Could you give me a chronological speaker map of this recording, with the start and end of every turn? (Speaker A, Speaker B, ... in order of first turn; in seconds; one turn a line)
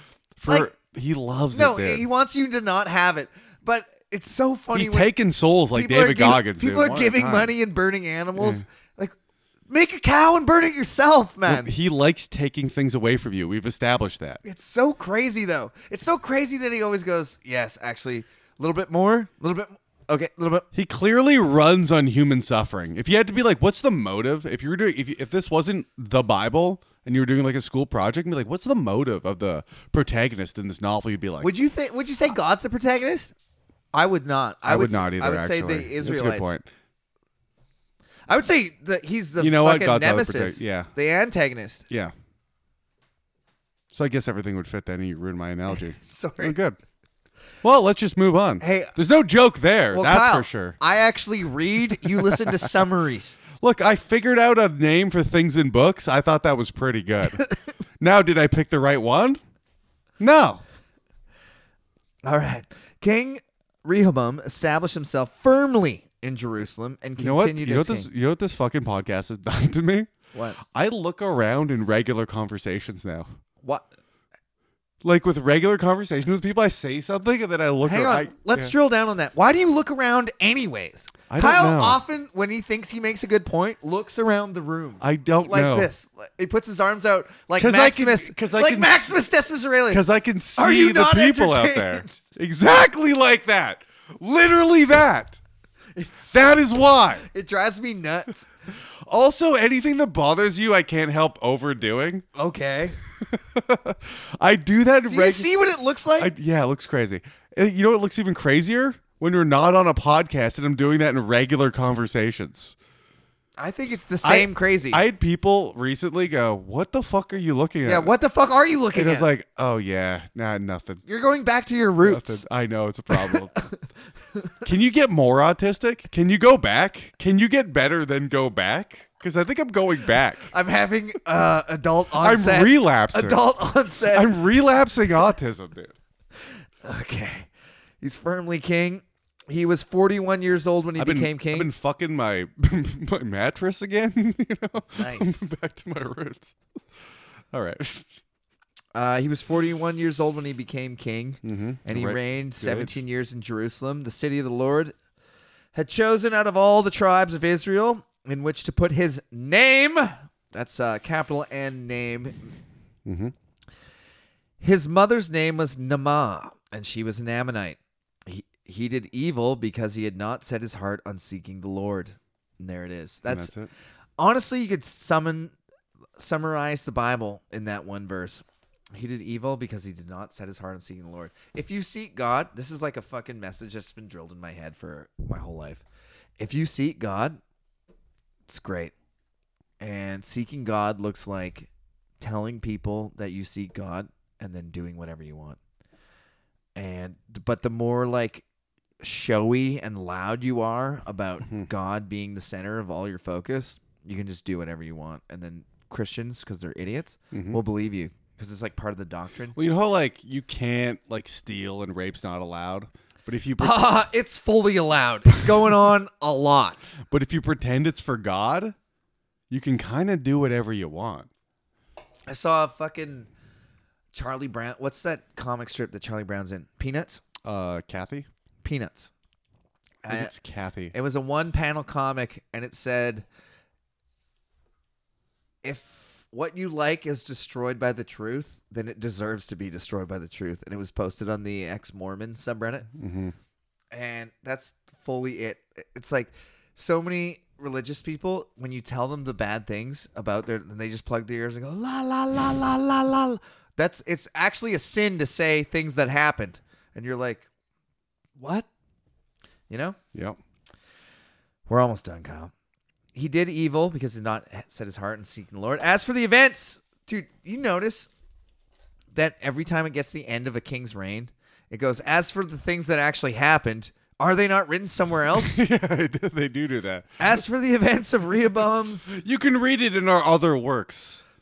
Speaker A: 0.4-2.1
Speaker B: 0.5-0.7
Speaker B: 1.5-5.1
Speaker A: 4.7-7.5
Speaker B: 5.7-9.1
Speaker A: 8.4-8.6
Speaker B: 9.7-11.7
Speaker A: 11.5-14.4
Speaker B: 14.4-20.7
Speaker A: 20.7-31.5
Speaker B: 31.4-33.3
Speaker B: 33.9-36.5
Speaker A: 34.6-36.7
Speaker B: 38.3-41.8
Speaker A: 39.4-40.9
Speaker A: 43.9-46.8
Speaker B: 46.0-46.6
Speaker A: 47.6-50.8
Speaker B: 48.6-49.0
Speaker B: 49.9-53.4
Speaker A: 53.6-57.5
Speaker A: 58.0-59.4
Speaker A: 60.2-60.6
Speaker B: 62.2-68.1
Speaker A: 67.2-70.1
Speaker B: 70.3-70.6
Speaker A: 70.6-73.3
Speaker A: 75.0-78.7
Speaker B: 77.8-92.2
Speaker A: 81.3-82.0
Speaker A: 85.0-85.9
Speaker A: 87.6-89.2
Speaker A: 89.9-95.4
Speaker B: 96.0-96.6
Speaker A: 96.3-97.3
Speaker B: 97.2-98.5
Speaker A: 99.0-102.2
Speaker B: 102.3-103.0
Speaker A: 103.2-105.5
Speaker B: 105.1-106.3
Speaker A: 106.2-112.8
Speaker B: 113.6-115.0
Speaker A: 114.2-118.1
Speaker B: 117.8-119.3
Speaker A: 118.9-121.0
Speaker B: 121.1-122.4
Speaker A: 122.0-123.6
Speaker B: 123.3-123.6
Speaker A: 124.6-130.5
Speaker B: 130.5-134.3
Speaker A: 132.2-133.4
Speaker A: 134.1-135.9
Speaker B: 136.8-137.5
Speaker B: 138.0-141.7
Speaker A: 141.0-146.6
Speaker B: 144.9-145.5
Speaker A: 147.5-148.1
Speaker B: 148.9-154.9
Speaker A: 151.4-153.0
Speaker B: 155.7-162.5
Speaker A: 163.1-163.3
Speaker B: 164.6-173.5
Speaker A: 173.3-173.7
Speaker B: 174.2-175.6
Speaker B: 176.2-185.8
Speaker B: 186.4-187.4
Speaker B: 188.5-188.9
Speaker B: 189.8-191.7
Speaker B: 192.2-195.6
Speaker B: 196.8-198.4
Speaker B: 199.0-209.6
Speaker A: 207.3-207.6
Speaker A: 209.5-213.9
Speaker B: 213.6-216.9
Speaker A: 217.0-218.8
Speaker A: 219.5-221.3
Speaker B: 222.3-223.3
Speaker B: 224.1-227.2
Speaker A: 227.4-228.3
Speaker B: 228.6-229.1
Speaker B: 230.0-230.3
Speaker A: 230.1-230.9
Speaker B: 230.9-233.2
Speaker B: 235.6-242.9
Speaker A: 242.9-243.3
Speaker B: 243.9-257.5
Speaker B: 258.4-258.7
Speaker B: 259.7-260.0
Speaker B: 261.7-262.5
Speaker B: 263.1-268.1
Speaker B: 269.1-275.6
Speaker A: 275.3-277.1
Speaker B: 277.2-279.1
Speaker A: 279.1-281.2